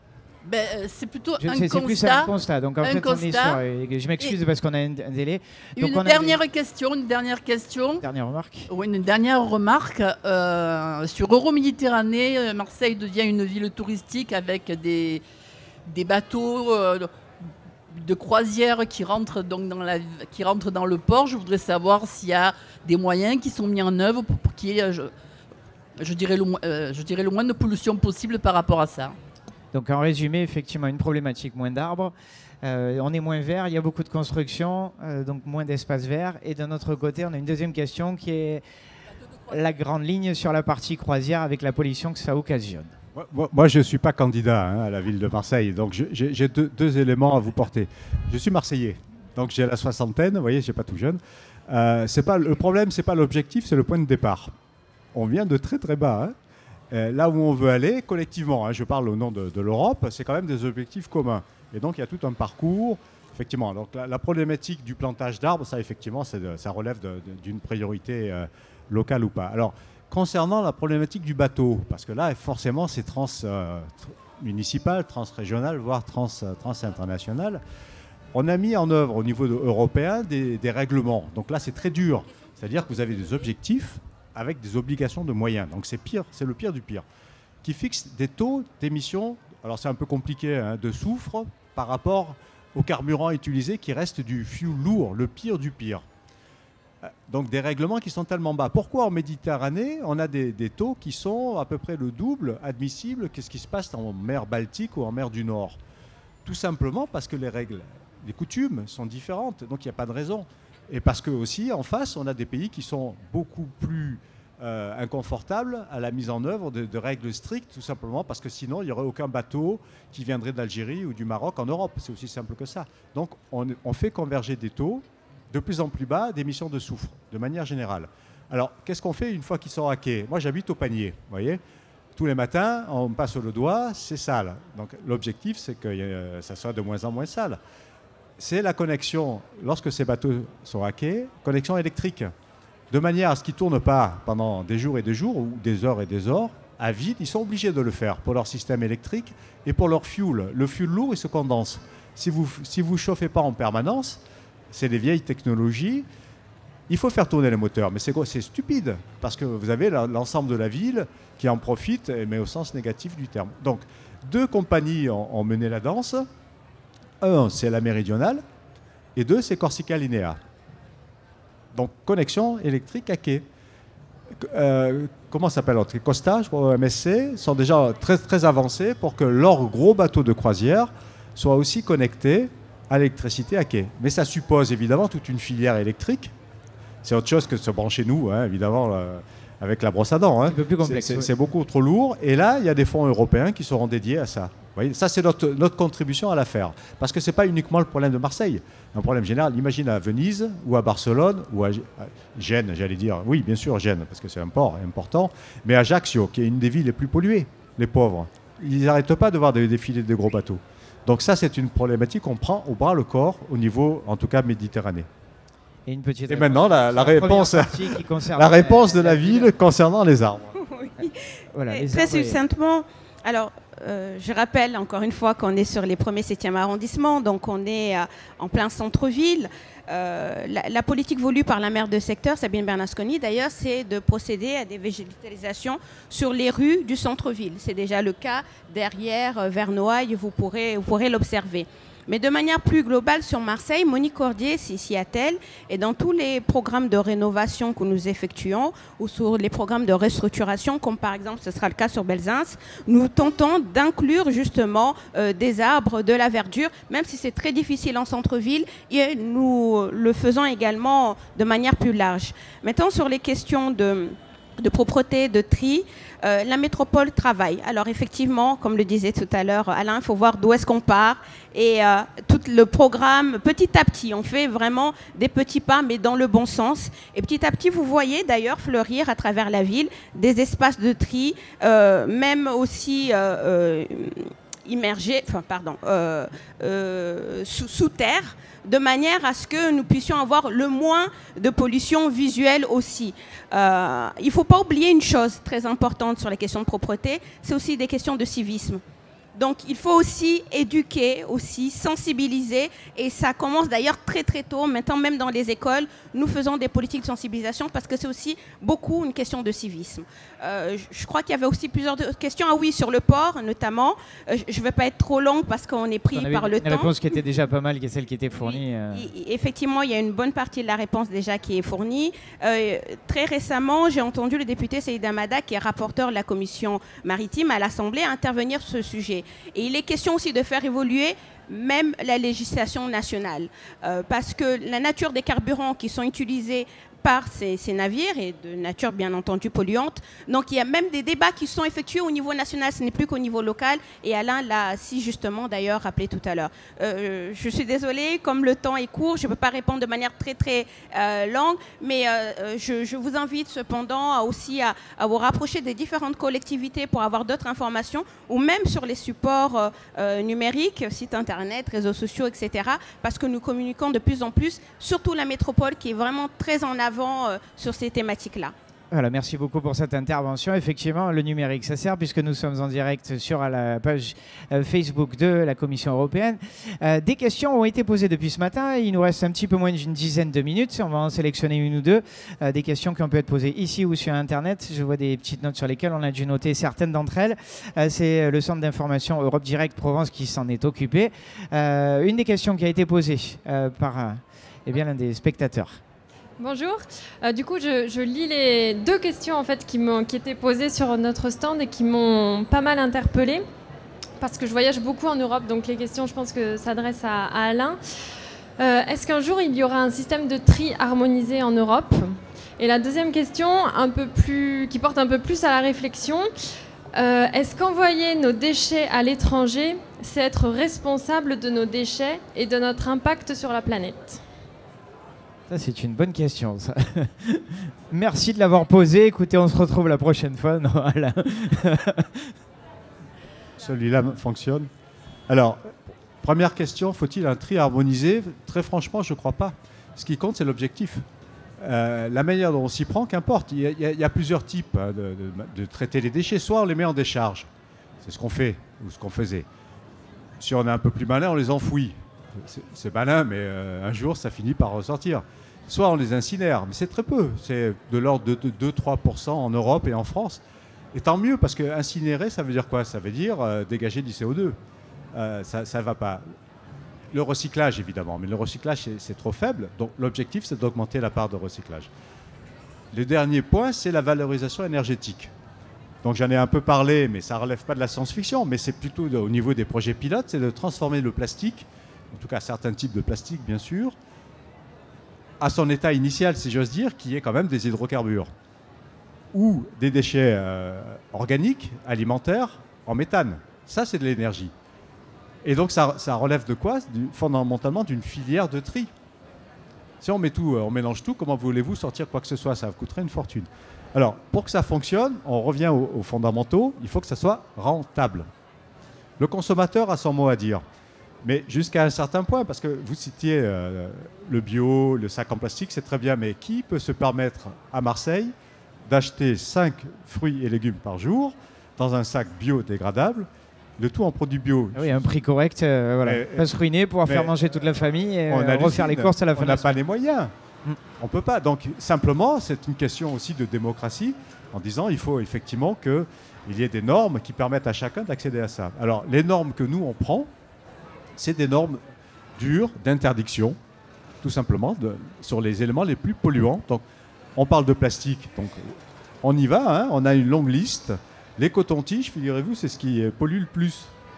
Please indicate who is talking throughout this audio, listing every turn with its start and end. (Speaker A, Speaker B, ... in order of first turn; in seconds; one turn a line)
Speaker A: 0.4-3.6
Speaker B: 1.4-6.4
Speaker A: 5.8-8.0
Speaker B: 8.0-8.7
Speaker A: 8.7-15.2
Speaker A: 15.9-17.1
Speaker A: 17.9-25.1
Speaker A: 26.0-29.2
Speaker B: 29.7-38.6
Speaker B: 39.5-43.0
Speaker C: 43.1-54.5
Speaker C: 55.1-56.4
Speaker C: 56.9-77.6
Speaker C: 78.3-87.1
Speaker C: 87.6-96.0
Speaker C: 97.0-105.8
Speaker C: 106.5-131.6
Speaker C: 132.2-137.6
Speaker C: 138.4-142.3
Speaker C: 142.9-156.1
Speaker C: 156.9-166.3
Speaker C: 167.2-168.4
Speaker C: 169.2-170.4
Speaker C: 171.7-173.5
Speaker C: 174.4-186.3
Speaker C: 187.0-215.1
Speaker B: 190.4-191.3
Speaker B: 215.9-219.5
Speaker C: 216.3-220.6
Speaker D: 220.6-221.2
Speaker B: 221.5-222.4
Speaker D: 221.7-298.8
Speaker D: 299.4-316.9
Speaker B: 316.1-319.1
Speaker D: 318.4-368.5
Speaker B: 368.9-395.8
Speaker E: 396.4-403.4
Speaker E: 404.2-407.8
Speaker E: 408.6-416.3
Speaker E: 416.9-424.2
Speaker B: 425.5-432.3
Speaker C: 433.6-434.7
Speaker C: 435.3-441.1
Speaker C: 441.6-447.5
Speaker C: 448.0-449.5
Speaker C: 450.4-460.4
Speaker C: 460.9-464.6
Speaker C: 465.1-466.2
Speaker C: 467.1-471.9
Speaker C: 472.9-475.3
Speaker C: 476.0-484.0
Speaker C: 485.4-488.3
Speaker C: 489.3-494.5
Speaker C: 495.4-498.9
Speaker C: 500.0-508.3
Speaker C: 509.2-510.6
Speaker C: 511.2-518.3
Speaker C: 518.9-525.2
Speaker B: 524.8-529.7
Speaker C: 526.0-527.4
Speaker C: 528.3-530.3
Speaker C: 531.0-540.3
Speaker C: 541.2-541.8
Speaker C: 542.4-543.6
Speaker C: 544.2-546.8
Speaker C: 547.4-553.9